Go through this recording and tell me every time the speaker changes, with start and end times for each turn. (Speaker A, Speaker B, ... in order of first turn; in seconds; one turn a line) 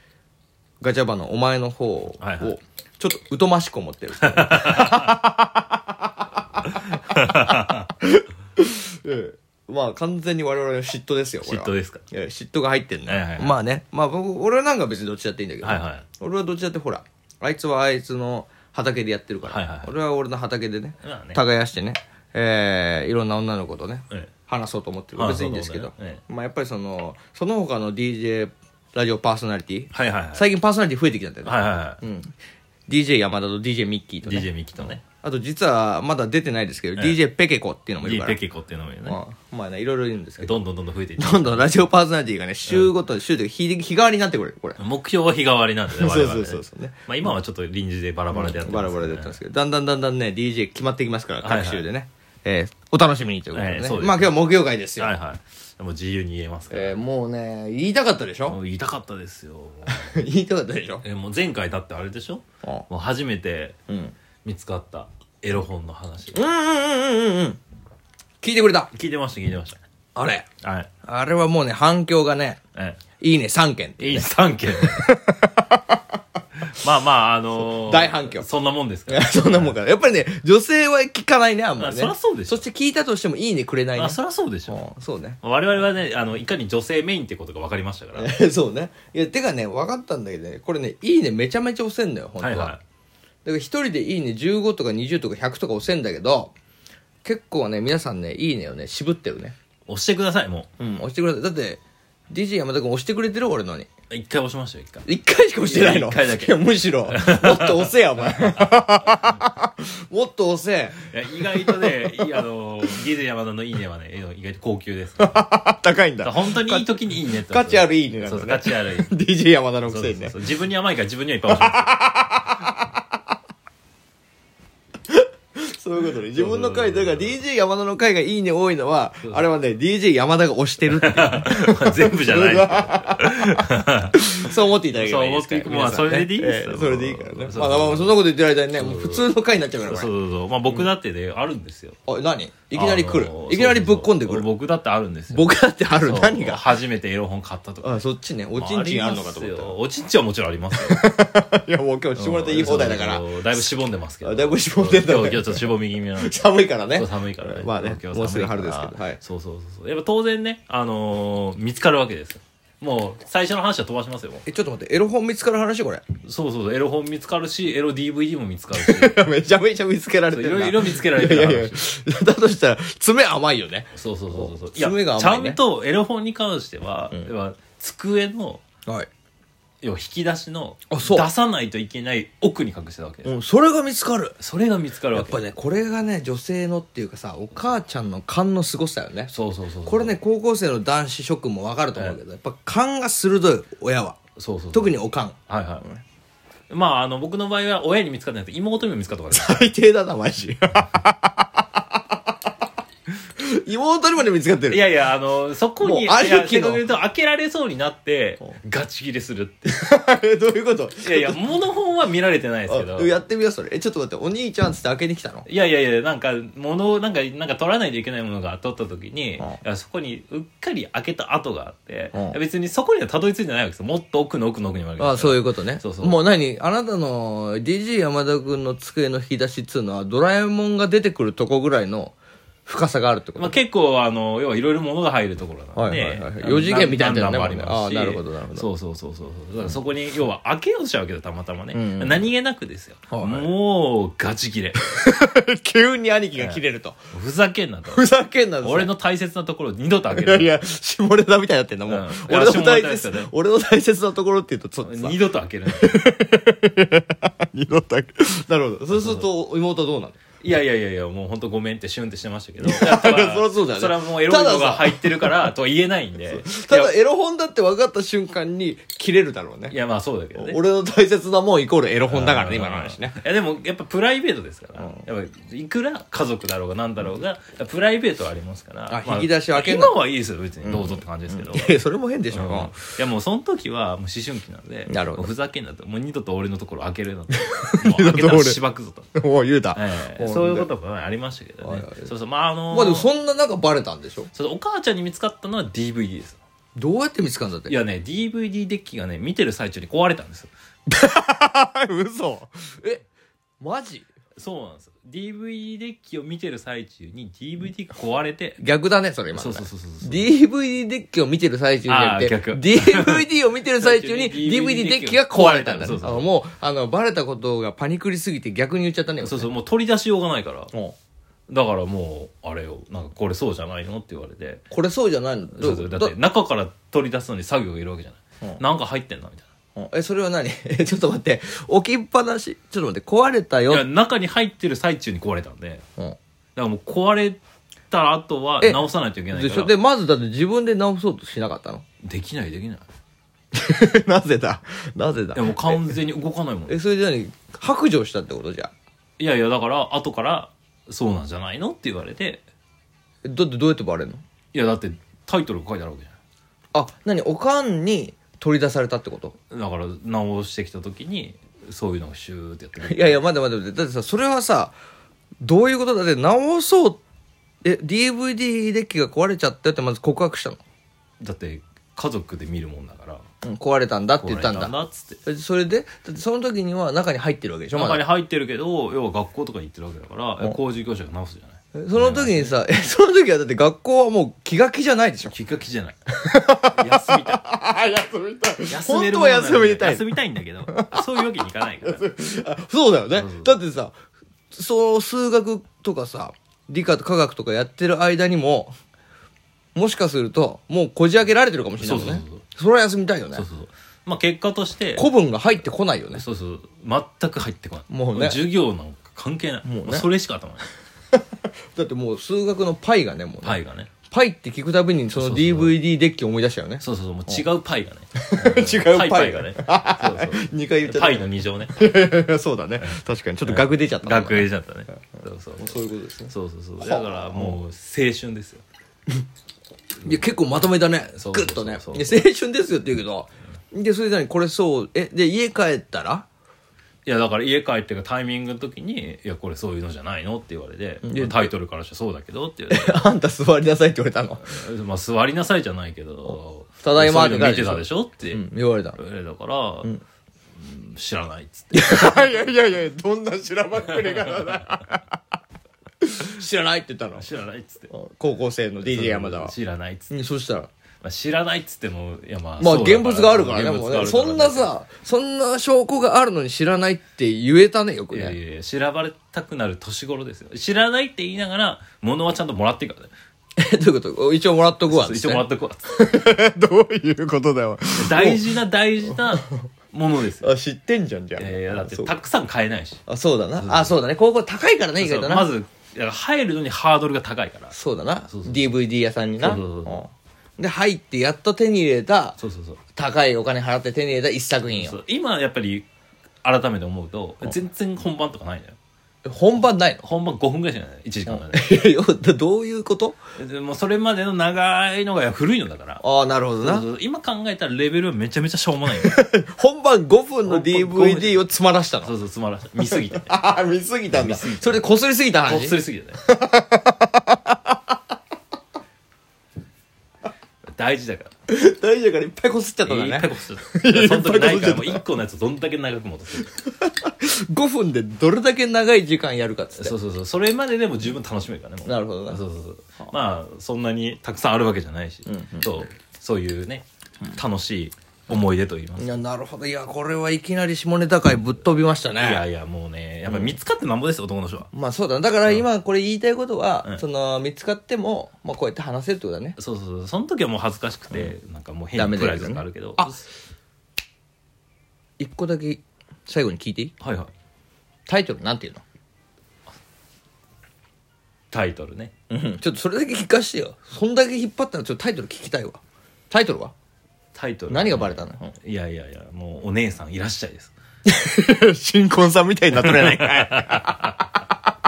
Speaker A: 0.8-5.6
Speaker B: 2.2-2.5
Speaker B: 4.2-5.2
Speaker B: 7.0-7.9
Speaker A: 7.4-32.3
Speaker B: 11.4-12.0
Speaker B: 13.1-13.6
Speaker B: 15.6-16.0
Speaker B: 19.4-19.9
Speaker B: 21.0-21.4
Speaker B: 25.1-26.2
Speaker B: 29.9-30.5
Speaker B: 31.4-32.0
Speaker A: 32.9-38.4
Speaker B: 34.2-35.0
Speaker B: 38.0-39.2
Speaker A: 39.0-40.6
Speaker B: 40.4-41.8
Speaker A: 41.2-44.8
Speaker B: 44.8-49.3
Speaker A: 45.9-47.4
Speaker A: 48.3-55.1
Speaker B: 51.4-51.8
Speaker B: 53.5-54.3
Speaker B: 55.0-57.0
Speaker A: 56.7-58.6
Speaker B: 58.5-60.1
Speaker A: 59.9-61.0
Speaker B: 61.0-63.8
Speaker A: 63.9-64.1
Speaker B: 64.4-66.4
Speaker A: 66.3-67.6
Speaker A: 68.4-68.9
Speaker B: 68.9-69.8
Speaker A: 70.2-70.5
Speaker B: 70.6-70.9
Speaker A: 71.0-72.6
Speaker B: 72.7-73.0
Speaker A: 73.2-75.9
Speaker B: 74.0-75.1
Speaker B: 76.7-79.7
Speaker A: 77.7-78.5
Speaker A: 79.1-85.4
Speaker B: 81.8-82.6
Speaker B: 84.0-84.8
Speaker B: 85.4-88.3
Speaker A: 88.1-92.7
Speaker B: 92.4-92.8
Speaker A: 93.4-96.5
Speaker A: 97.2-99.5
Speaker B: 99.9-100.7
Speaker A: 100.8-103.9
Speaker B: 104.1-105.0
Speaker A: 105.0-112.4
Speaker B: 105.6-109.3
Speaker B: 111.1-115.5
Speaker A: 115.2-120.3
Speaker B: 116.2-119.1
Speaker B: 119.9-122.0
Speaker A: 121.5-122.8
Speaker A: 125.1-140.1
Speaker B: 126.3-127.4
Speaker B: 130.9-138.2
Speaker B: 138.8-139.3
Speaker B: 139.9-142.0
Speaker A: 142.1-144.5
Speaker B: 142.7-151.0
Speaker A: 145.3-146.7
Speaker A: 147.8-149.8
Speaker A: 150.7-153.7
Speaker B: 152.1-164.4
Speaker A: 154.2-159.2
Speaker A: 164.4-166.0
Speaker B: 166.2-169.2
Speaker A: 168.7-175.6
Speaker B: 170.3-171.8
Speaker B: 173.9-178.6
Speaker B: 179.8-183.3
Speaker A: 180.9-181.3
Speaker A: 183.2-184.4
Speaker B: 184.4-185.4
Speaker A: 185.1-189.3
Speaker B: 189.3-190.1
Speaker A: 189.8-194.2
Speaker B: 194.4-194.9
Speaker A: 194.7-196.0
Speaker B: 195.5-195.8
Speaker B: 196.7-199.7
Speaker A: 199.3-201.6
Speaker A: 203.4-204.8
Speaker B: 204.7-209.7
Speaker A: 205.8-206.8
Speaker A: 209.7-211.4
Speaker B: 211.0-213.1
Speaker A: 212.7-215.5
Speaker B: 215.4-226.2
Speaker A: 225.0-232.1
Speaker A: 232.7-233.5
Speaker B: 233.4-244.8
Speaker A: 235.7-238.7
Speaker A: 241.7-242.3
Speaker A: 243.1-243.5
Speaker A: 244.8-247.0
Speaker B: 247.1-248.1
Speaker A: 247.9-248.9
Speaker B: 248.6-250.5
Speaker A: 250.1-260.2
Speaker B: 251.9-253.3
Speaker B: 254.8-256.0
Speaker B: 258.9-259.2
Speaker B: 260.4-266.9
Speaker A: 262.6-265.5
Speaker A: 266.3-269.8
Speaker B: 269.7-270.6
Speaker A: 270.3-273.2
Speaker B: 272.1-281.8
Speaker A: 278.9-280.0
Speaker A: 280.6-282.8
Speaker B: 282.3-289.1
Speaker A: 284.9-285.3
Speaker A: 287.4-288.6
Speaker A: 289.1-290.7
Speaker B: 289.7-293.1
Speaker A: 291.6-292.1
Speaker A: 292.7-294.3
Speaker B: 294.3-296.4
Speaker A: 296.8-297.7
Speaker B: 297.7-300.5
Speaker A: 300.9-303.0
Speaker A: 303.6-304.1
Speaker B: 304.4-308.6
Speaker A: 308.6-319.5
Speaker B: 309.3-310.2
Speaker B: 311.9-316.3
Speaker B: 319.2-320.7
Speaker B: 321.5-324.6
Speaker A: 324.7-326.1
Speaker B: 325.6-329.5
Speaker A: 329.8-333.8
Speaker B: 333.7-335.8
Speaker B: 336.6-337.4
Speaker B: 337.9-339.7
Speaker A: 338.6-341.8
Speaker B: 342.0-342.8
Speaker A: 343.5-346.0
Speaker B: 345.3-346.8
Speaker A: 346.7-348.7
Speaker B: 349.2-352.4
Speaker A: 353.2-354.2
Speaker B: 354.5-356.1
Speaker A: 356.7-359.4
Speaker B: 359.5-363.2
Speaker A: 362.8-364.7
Speaker A: 365.4-367.0
Speaker A: 367.6-370.6
Speaker B: 371.2-373.2
Speaker A: 373.4-374.7
Speaker B: 374.2-375.2
Speaker A: 375.2-378.0
Speaker B: 377.7-382.5
Speaker A: 381.7-385.4
Speaker B: 385.3-385.9
Speaker A: 386.1-390.2
Speaker B: 386.7-387.4
Speaker B: 388.7-392.1
Speaker A: 390.7-391.0
Speaker A: 391.8-393.9
Speaker B: 393.1-393.5
Speaker A: 394.5-398.7
Speaker A: 399.7-403.4
Speaker B: 401.8-402.4
Speaker B: 403.3-405.1
Speaker A: 404.9-406.2
Speaker B: 406.1-410.7
Speaker A: 407.9-408.4
Speaker A: 409.6-410.1
Speaker A: 411.7-417.4
Speaker B: 413.4-413.9
Speaker B: 415.1-415.8
Speaker B: 416.8-421.8
Speaker A: 418.1-424.5
Speaker B: 422.8-425.7
Speaker A: 425.6-427.6
Speaker B: 426.3-428.6
Speaker A: 430.0-436.2
Speaker B: 431.2-432.2
Speaker B: 437.1-443.1
Speaker A: 441.0-441.5
Speaker A: 442.7-444.5
Speaker B: 444.4-449.9
Speaker A: 446.8-449.0
Speaker B: 450.6-452.5
Speaker A: 451.7-455.1
Speaker B: 453.9-454.6
Speaker A: 456.0-457.2
Speaker B: 457.1-457.9
Speaker A: 457.9-459.5
Speaker B: 458.8-460.1
Speaker A: 460.1-460.7
Speaker B: 461.0-464.7
Speaker A: 462.6-468.4
Speaker B: 468.1-473.1
Speaker A: 473.6-478.4
Speaker B: 474.9-475.9
Speaker B: 478.0-480.5
Speaker A: 479.1-479.6
Speaker A: 480.4-482.1
Speaker B: 481.4-483.0
Speaker A: 483.1-485.5
Speaker B: 483.6-483.9
Speaker B: 485.0-487.7
Speaker A: 487.7-492.4
Speaker B: 488.3-488.6
Speaker B: 489.4-490.0
Speaker B: 492.4-492.8
Speaker A: 492.9-495.0
Speaker B: 494.7-495.9
Speaker B: 496.4-498.8
Speaker A: 499.2-500.1
Speaker B: 500.0-501.8
Speaker A: 501.3-503.2
Speaker B: 503.4-506.0
Speaker A: 506.0-506.9
Speaker B: 506.6-509.2
Speaker A: 508.9-512.1
Speaker B: 510.4-511.4
Speaker B: 512.0-513.3
Speaker A: 512.9-517.5
Speaker B: 514.1-514.8
Speaker B: 515.4-516.2
Speaker B: 520.7-521.3
Speaker A: 521.5-525.0
Speaker B: 522.9-526.5
Speaker A: 526.5-530.0
Speaker B: 529.7-539.1
Speaker A: 531.8-532.4
Speaker A: 535.2-535.8
Speaker A: 539.0-542.4
Speaker B: 542.2-544.7
Speaker A: 543.3-543.5
Speaker A: 544.7-549.6
Speaker B: 549.6-553.2
Speaker A: 551.9-553.2
Speaker A: 555.2-556.9
Speaker B: 557.0-557.3
Speaker A: 558.1-558.8
Speaker B: 561.5-562.1
Speaker A: 562.3-566.7
Speaker B: 567.3-570.7
Speaker A: 567.7-568.5
Speaker A: 571.0-574.3
Speaker B: 572.8-574.1